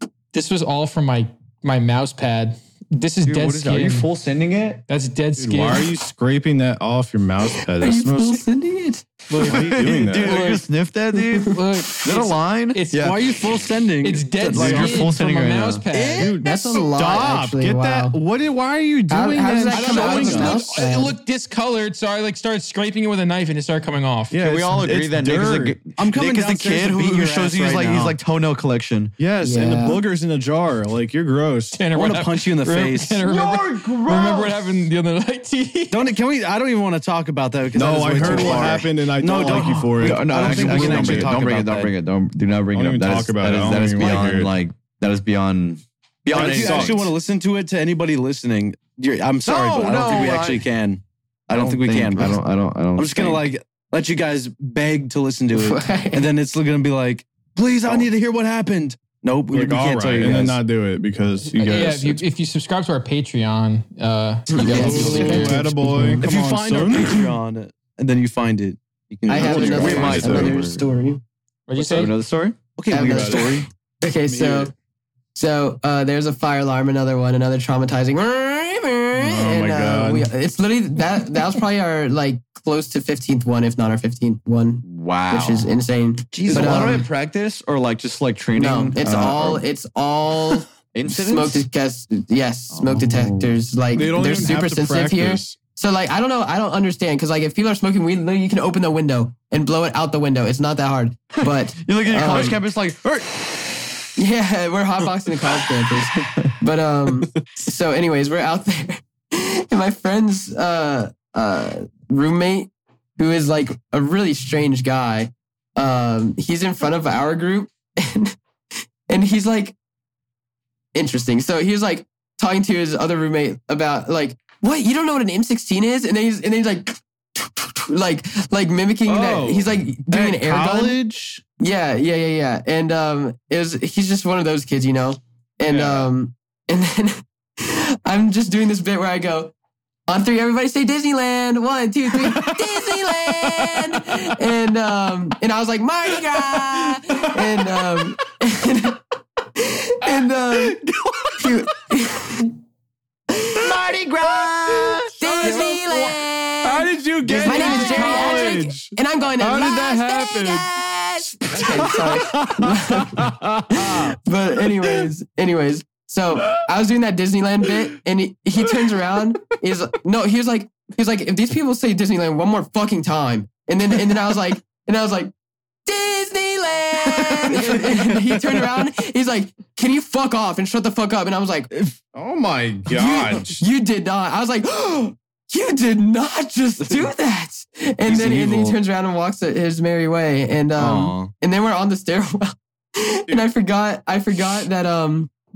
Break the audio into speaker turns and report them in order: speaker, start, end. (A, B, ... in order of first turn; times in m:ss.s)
0:00.3-0:04.1 A
0:03.2-0:04.8 B
0:04.9-0:05.9 A
0:05.4-0:08.4 C
0:07.8-0:09.1 D
0:09.3-0:10.6 A
0:09.4-0:13.3 B
0:09.4-0:10.4 C
0:11.3-0:11.6 D
0:11.4-0:13.2 A
0:12.9-0:15.1 E
0:14.0-0:16.4 A
0:14.5-0:15.8 B
0:14.6-0:15.0 C
0:15.9-0:16.4 E
0:16.2-0:20.5 C
0:16.4-0:18.2 D
0:19.1-0:21.2 D
0:19.7-0:20.6 E
0:19.7-0:24.4 A
0:24.3-0:25.8 C
0:24.3-0:29.2 B
0:26.0-0:28.2 E
0:29.2-0:31.8 C
0:29.4-0:30.0 D
0:31.8-0:36.0 A
0:31.9-0:33.4 E
0:33.3-0:34.6 B
0:35.9-0:41.9 E
0:37.8-0:41.5 C
0:37.8-0:38.8 B
0:39.5-0:47.1 B
0:42.7-0:44.5 C
0:46.3-0:52.4 E
0:46.3-0:47.1 C
0:49.4-0:50.6 B
0:51.5-0:53.5 B
0:53.0-1:00.6 E
0:55.5-0:56.3 D
0:59.5-1:02.2 C
1:01.5-1:05.6 A
1:04.5-1:06.2 D
1:04.6-1:05.5 E
1:04.7-1:07.2 C
1:06.2-1:10.4 E
1:09.3-1:11.2 D
1:09.3-1:10.8 B
1:09.4-1:10.6 C
1:11.7-1:12.1 A
1:11.8-1:12.6 B
1:12.8-1:13.7 E
1:12.9-1:14.7 D
1:13.0-1:13.5 C
1:14.3-1:14.7 C
1:15.4-1:27.1 D
1:19.2-1:20.3 C
1:24.8-1:25.7 B
1:26.3-1:29.6 B
1:26.6-1:26.8 E
1:28.6-1:42.6 D
1:30.9-1:31.6 B
1:32.7-1:33.6 B
1:33.9-1:35.6 C
1:41.8-1:43.7 B
1:44.2-1:58.4 D
1:59.1-1:59.8 D
2:01.0-2:11.0 D
2:09.1-2:11.4 C
2:11.6-2:19.5 D
2:15.7-2:16.1 C
2:20.1-2:29.0 D
2:22.2-2:24.4 C
2:26.5-2:27.4 C
2:29.6-2:30.8 D
2:31.4-2:32.5 D
2:33.4-2:33.6 D
2:33.6-2:35.1 B
2:33.6-2:35.9 C
2:35.2-2:55.3 D
2:35.4-2:36.1 A
2:36.6-2:44.1 C
2:37.5-2:38.5 A
2:46.4-2:46.6 C
2:55.9-3:01.7 D
3:02.1-3:03.6 C
3:02.9-3:15.3 D
3:06.8-3:07.1 E
3:08.1-3:08.7 B
3:08.1-3:08.7 E
3:10.8-3:11.3 E